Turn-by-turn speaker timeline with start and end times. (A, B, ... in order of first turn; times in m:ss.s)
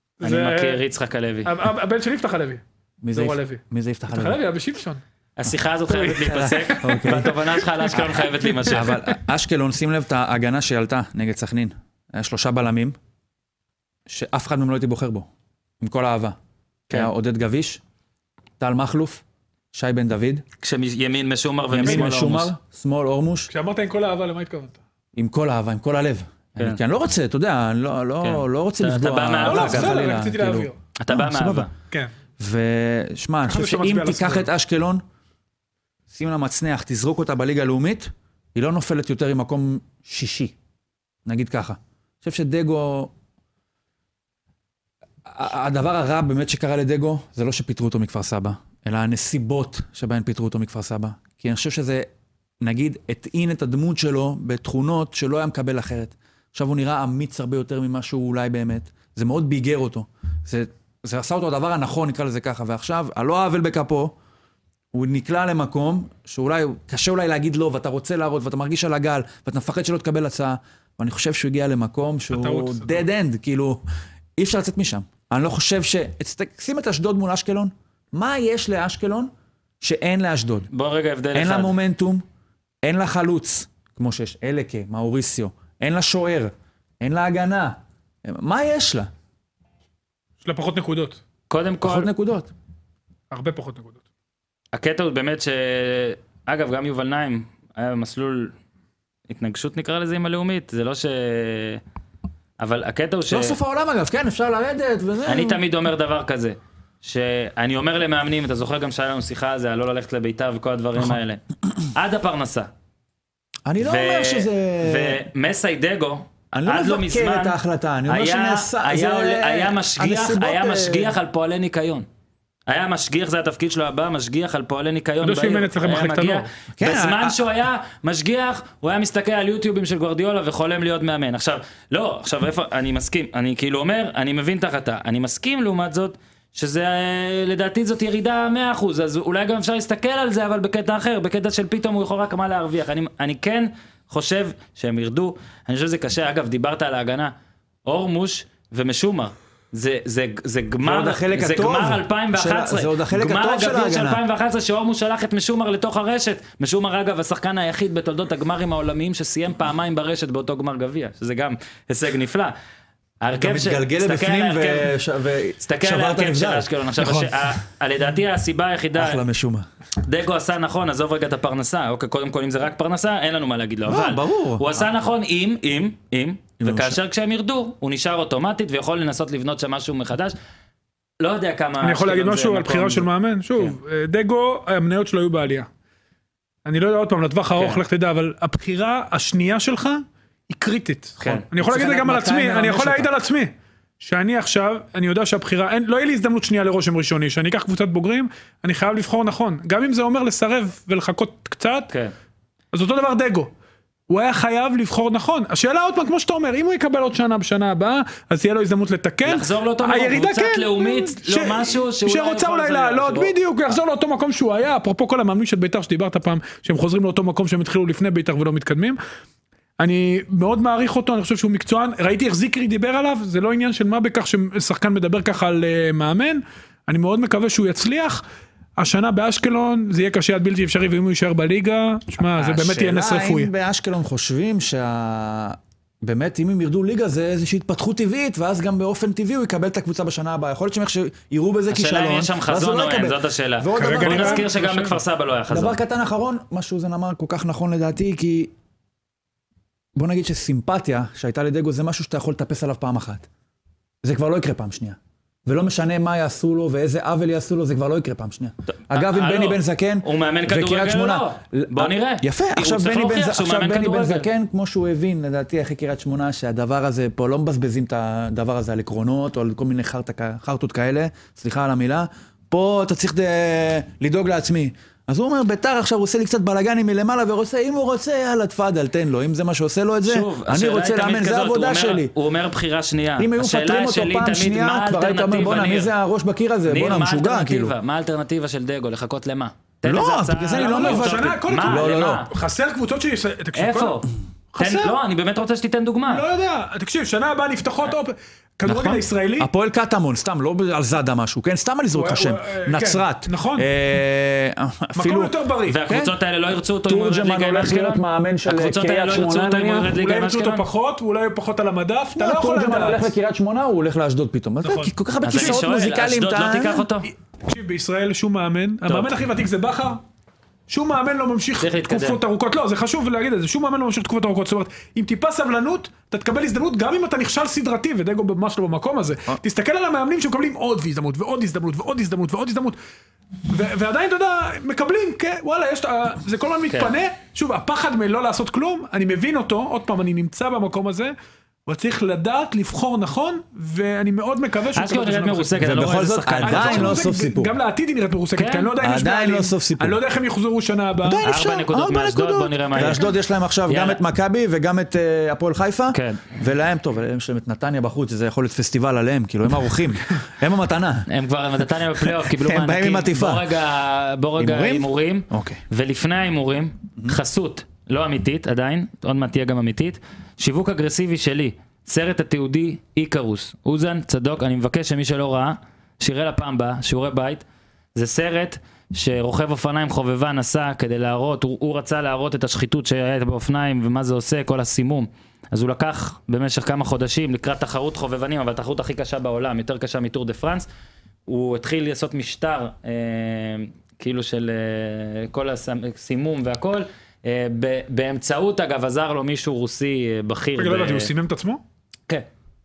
0:00.2-0:00.8 A
0:00.2-0:01.5 B
0:01.4-0:02.6 A
0:03.0-0:04.4 C
0:03.1-0:05.0 A
0:05.4-0:09.0 B
0:05.9-0:07.0 A
0:06.2-0:07.5 C
0:08.4-0:08.8 A
0:08.6-0:13.0 C
0:14.1-0:15.3 C
0:15.8-0:16.4 C
0:16.9-0:17.8 C
0:18.6-0:20.4 C
0:20.6-0:22.5 B
0:21.7-0:23.5 C
0:21.8-0:22.1 A
0:23.5-0:24.8 A
0:25.1-0:31.7 C
0:28.2-0:30.0 B
0:29.4-0:30.8 A
0:31.0-0:31.7 B
0:32.4-0:35.0 C
0:33.4-0:34.5 A
0:36.1-0:40.5 C
0:41.2-0:43.1 C
0:45.2-0:52.1 C
0:52.6-1:04.1 C
1:04.9-1:13.8 C
1:12.3-1:13.0 A
1:14.4-1:20.7 C
1:20.7-1:21.8 B
1:21.3-1:22.2 C
1:22.8-1:29.1 C
1:30.4-1:31.2 A
1:31.5-1:32.1 B
1:31.8-1:32.5 C
1:33.3-1:34.0 A
1:34.7-1:38.5 B
1:39.3-1:41.8 B
1:42.6-1:43.6 B
1:43.3-1:45.6 C
1:45.3-1:51.4 B
1:51.9-1:52.7 B
1:53.6-1:55.2 C
1:53.8-1:57.6 B
1:56.5-2:01.1 C
1:58.1-2:02.0 B
2:02.7-2:27.3 B
2:05.2-2:06.5 A
2:06.8-2:07.4 C
2:27.8-2:42.5 B
2:30.8-2:34.2 C
2:43.2-2:44.9 B
2:43.3-2:47.6 C
2:45.6-2:49.2 B
2:48.9-2:49.6 C
2:50.0-3:00.3 B
2:53.8-2:54.9 C
2:56.6-2:57.0 C
3:01.2-3:03.8 B
3:01.8-3:05.7 A
3:06.6-3:21.9 A
3:07.5-3:07.8 B
3:11.2-3:11.5 B
3:11.5-3:13.1 C
3:22.7-3:23.5 A
3:24.1-3:39.0 A
3:29.2-3:33.3 B
3:39.8-3:48.2 A
3:48.8-3:53.5 A
3:52.4-4:04.5 C
4:01.7-4:05.8 B
4:03.7-4:05.0 A
4:05.5-4:08.5 C
4:09.9-4:13.3 C
4:14.0-4:42.1 C
4:18.9-4:24.3 B
4:40.1-4:45.9 B
4:43.2-4:47.7 C
4:46.7-4:52.3 B
4:49.8-4:52.2 C
4:50.5-4:55.0 A
4:53.5-4:56.2 B
4:56.1-4:59.5 A
4:58.6-5:05.3 C
5:01.9-5:03.7 A
5:05.0-5:05.8 A
5:05.6-5:10.6 B
5:05.8-5:06.1 C
5:06.8-5:09.9 C
5:09.8-5:13.1 A
5:12.2-5:16.9 C
5:14.6-5:15.5 A
5:15.2-5:17.1 B
5:17.4-5:20.0 A
5:18.8-5:19.2 B
5:20.7-5:32.8 A
5:21.6-5:22.2 B
5:33.5-5:41.1 A
5:36.7-5:36.9 B
5:41.6-5:45.7 A
5:44.8-5:47.0 B
5:45.6-5:47.5 C
5:46.4-5:51.2 A
5:48.3-5:48.7 B
5:48.8-5:50.0 C
5:51.0-6:01.1 C
5:51.2-5:53.1 B
5:53.7-5:54.0 B
5:55.9-5:56.4 B
6:01.1-6:30.7 B
6:02.0-6:03.4 C
6:04.4-6:05.6 C
6:31.3-6:41.1 B
6:40.6-6:41.6 A